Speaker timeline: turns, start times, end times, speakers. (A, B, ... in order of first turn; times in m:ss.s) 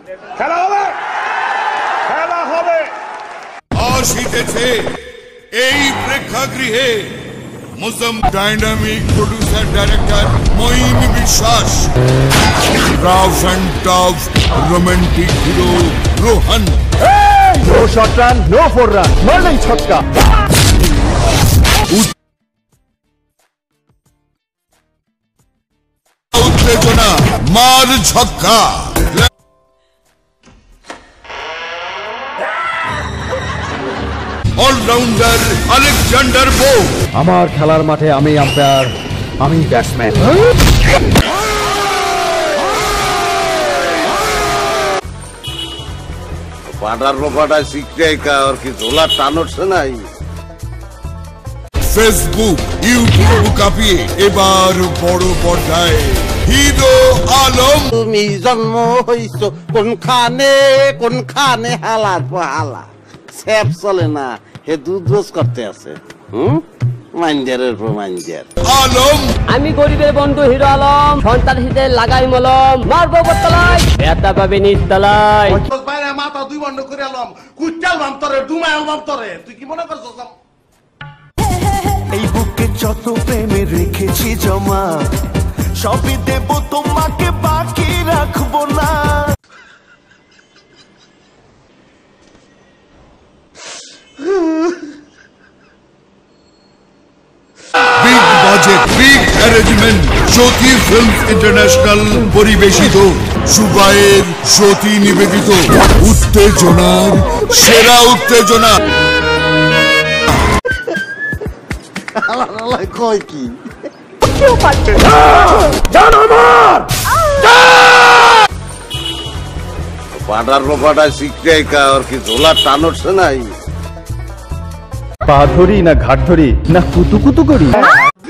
0:03.8-0:11.9 A
0:12.9-0:16.8 A
0:17.3-0:20.0 B
0:26.3-0:29.3 A
0:34.6-0:37.0 A
0:37.1-0:40.3 B
0:46.7-0:50.1 C
0:51.8-0:57.9 A
0:57.9-1:06.6 C
1:07.2-1:08.5 C
1:08.6-1:09.3 A
1:09.5-1:15.6 D
1:15.5-1:20.3 E
1:21.9-1:25.1 F
1:25.8-1:29.2 F
1:38.0-1:48.8 A
1:52.2-1:53.6 C
2:00.1-2:03.6 C
2:05.3-2:07.9 B